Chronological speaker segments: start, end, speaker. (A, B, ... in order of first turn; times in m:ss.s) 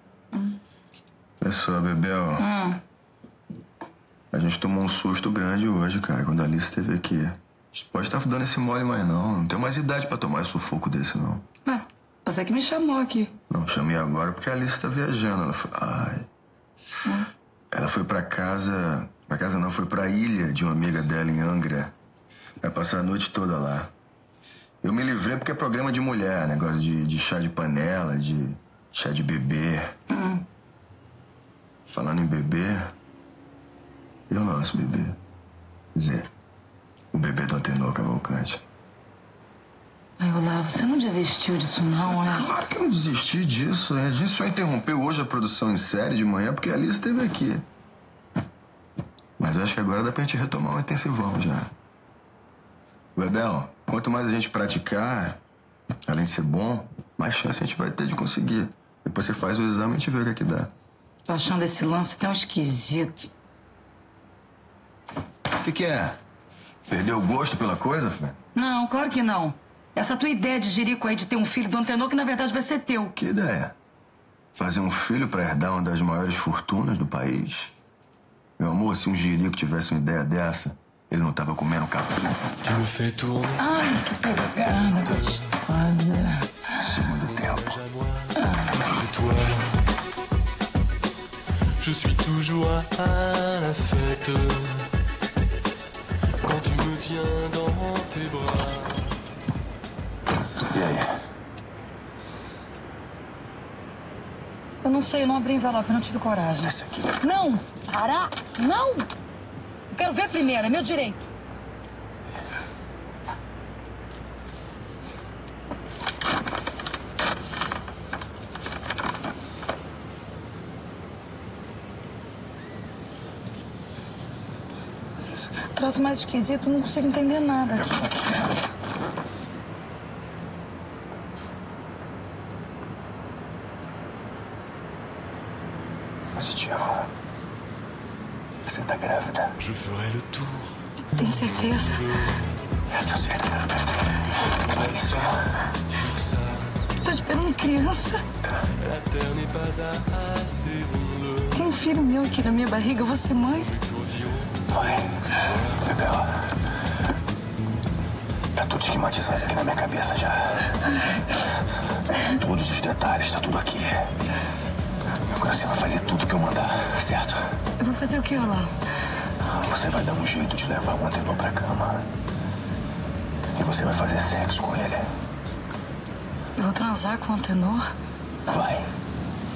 0:00.3-0:00.6 A
0:01.4-0:02.4 B
0:02.4-0:02.8 A
0:04.3-0:11.4 B
0:11.6-0:13.3 A
0:13.5-0:16.3 B
0:17.7-0:21.9 B
0:22.6-0:23.9 B
0:24.8-0:30.0 B
0:30.1-0:30.4 A
0:31.8-0:32.9 B
0:34.3-0:35.2 B
0:35.9-0:36.3 B
0:37.1-0:38.6 B
0:40.2-0:42.5 A
0:42.0-0:47.6 B
0:49.4-0:51.7 B
0:53.2-0:55.4 B
0:56.1-1:00.7 B
1:01.3-1:03.3 A
1:05.6-1:06.2 B
1:06.9-1:08.4 B
1:08.5-1:13.1 A
1:13.2-1:13.7 B
1:14.5-1:17.7 B
1:18.6-1:22.3 B
1:22.6-1:23.6 C
1:23.6-1:26.7 A
1:26.8-1:27.8 B
1:27.4-1:29.8 C
1:28.4-1:28.8 A
1:31.8-1:34.9 C
1:36.4-1:39.2 C
1:40.7-1:41.2 B
1:44.8-1:49.1 A
1:46.6-1:47.2 B
1:49.9-1:51.3 A
2:05.7-2:08.5 A
2:07.8-2:08.3 B
2:16.3-2:17.0 B
2:18.6-2:19.6 B
2:19.6-2:20.8 C
2:21.1-2:22.4 A
2:22.0-2:22.3 C
2:22.9-2:24.2 B
2:24.2-2:25.4 C
2:24.7-2:25.3 B
2:25.9-2:26.9 C
2:26.9-2:28.2 A
2:28.8-2:31.5 C
2:31.5-2:33.8 A
2:33.8-2:35.8 C
2:34.7-2:35.1 B
2:35.7-2:36.3 B
2:38.6-2:40.7 B
2:42.2-2:44.1 B
2:45.2-2:47.4 B
2:47.8-2:48.7 A
2:49.4-2:52.0 B
2:53.5-2:55.1 B
2:56.6-2:57.8 A
2:58.5-2:58.9 B